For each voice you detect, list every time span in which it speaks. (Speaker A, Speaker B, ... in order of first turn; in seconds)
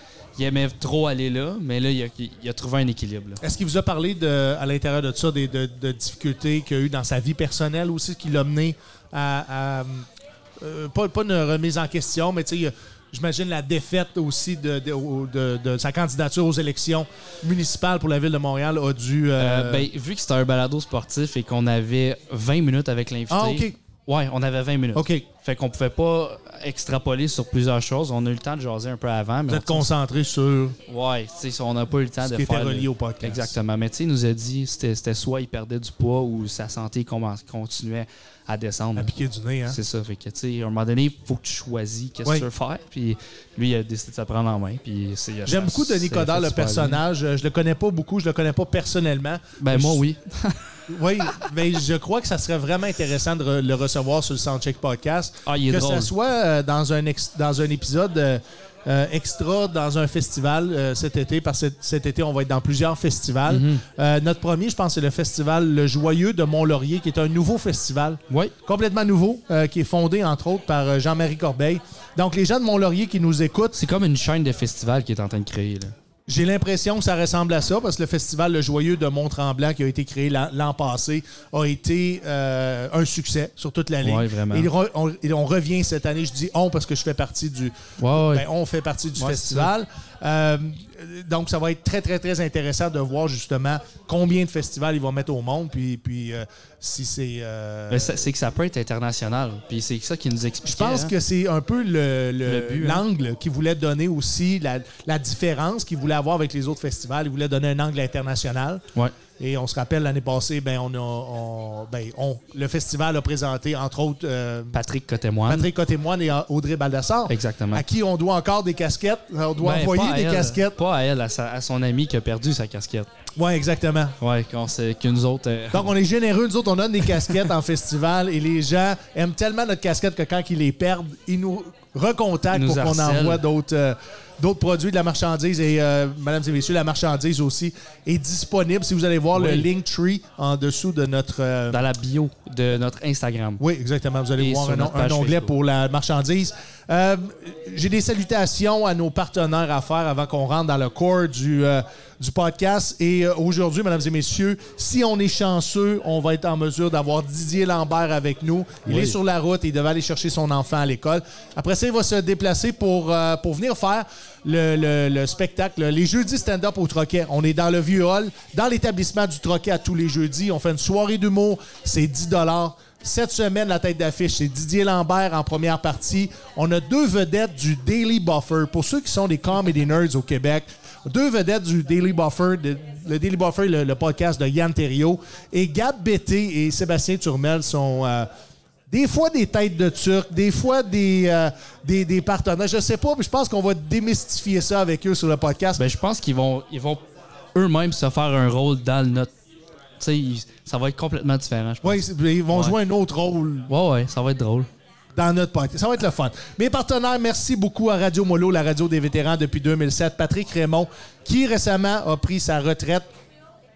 Speaker A: 0.4-3.4, 19.4-29.9, 30.9-39.2, 39.7-47.0, 49.6-50.8, 55.5-56.1, 63.5-63.9, 73.7-75.9, 84.0-84.7, 88.0-88.4, 89.2-89.7, 97.9-101.1, 102.5-103.0, 114.7-115.7, 117.3-117.9, 119.6-123.1, 124.2-126.0, 132.5-133.4, 139.3-139.7, 141.7-143.6, 144.4-145.5, 158.9-159.2, 195.8-197.0, 197.6-199.3, 200.0-202.8, 203.7-204.7
Speaker B: 3.4-10.1, 10.6-19.9, 23.3-23.8, 24.9-25.2, 29.5-30.8, 32.2-33.6, 39.0-39.8, 45.5-50.0, 50.9-73.8, 76.3-98.3, 100.6-108.8, 109.4-114.8, 115.5-120.8, 123.4-124.2, 125.7-141.8, 143.6-188.3, 188.9-195.8, 201.8-203.7, 205.2-213.1